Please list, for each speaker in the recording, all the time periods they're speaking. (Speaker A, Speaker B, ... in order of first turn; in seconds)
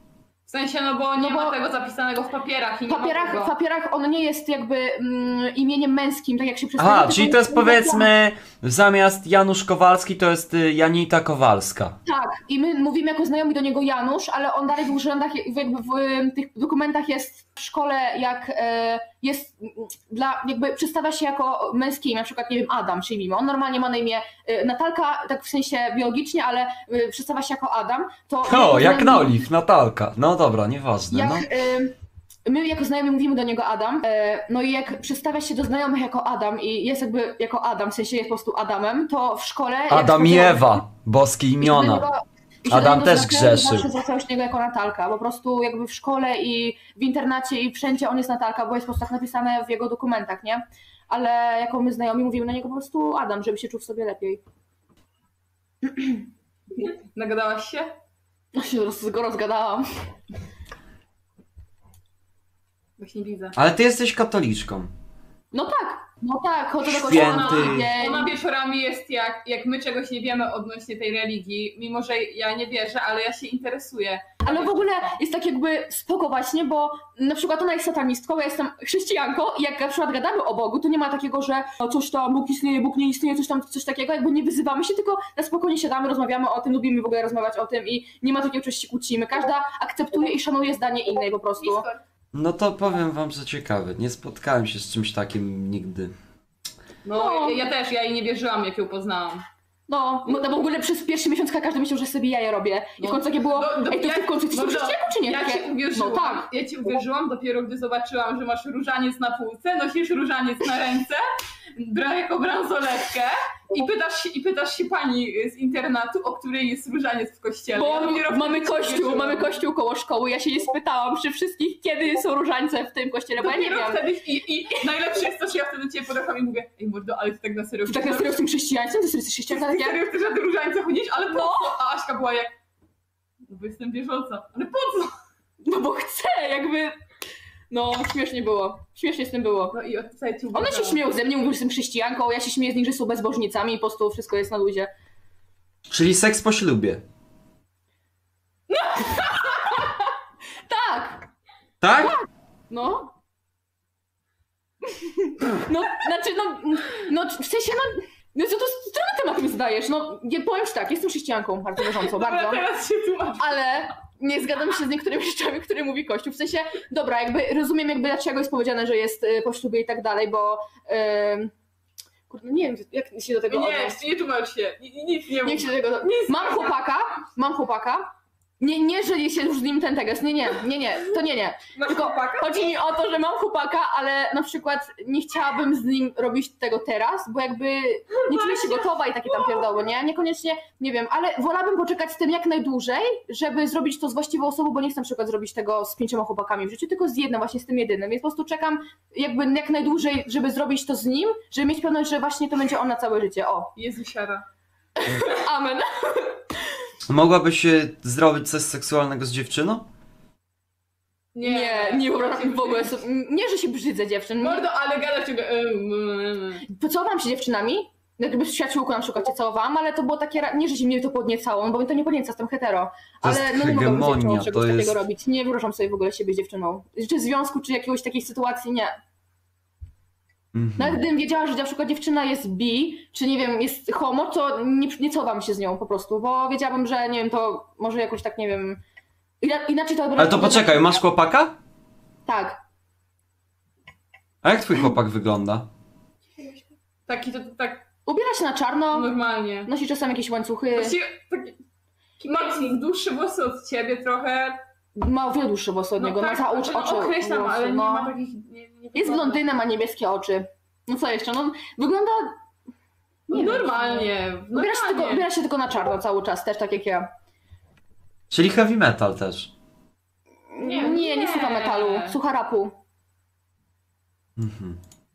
Speaker A: 0.5-3.5, 56.8-57.9, 63.0-63.6, 67.0-75.2, 91.6-92.0, 97.0-99.4, 103.0-111.2, 111.8-119.6, 123.4-128.4, 129.5-132.5, 133.4-135.1, 139.7-141.0, 161.8-163.6, 173.5-176.8, 181.7-182.7, 188.2-189.4, 203.8-204.4, 211.3-212.9, 214.4-216.6, 246.4-247.8, 248.9-249.7, 250.7-251.6, 252.2-254.6, 256.0-259.4, 263.3-265.3, 270.6-272.1
Speaker B: 1.1-1.6, 2.9-8.1, 12.1-29.4, 31.1-31.9, 32.5-40.8, 41.6-54.4, 55.9-56.2, 58.5-59.8, 65.5-68.3, 74.4-91.8, 97.1-97.6, 99.9-106.5, 117.7-124.0, 127.8-130.0, 131.2-131.7, 135.6-136.9, 137.7-139.8, 140.5-144.9, 148.8-150.0, 150.7-151.3, 152.0-153.1, 154.9-162.6, 163.4-171.5, 172.3-174.0, 175.4-178.1, 178.6-203.7, 205.0-206.5, 211.4-214.7, 216.7-228.9, 230.8-238.8, 239.4-241.0, 242.2-242.6, 248.1-249.1, 249.6-251.0, 254.9-258.1, 258.9-262.3, 263.3-267.1, 270.5-272.8
Speaker C: 6.8-11.9, 28.5-31.4, 39.9-42.0, 42.7-43.9, 63.5-64.9, 66.9-67.9, 92.3-96.1, 145.9-147.0, 151.8-152.1, 207.1-209.8, 223.2-225.0, 230.5-231.0, 240.2-241.5, 244.4-245.7, 268.3-269.5, 274.4-274.8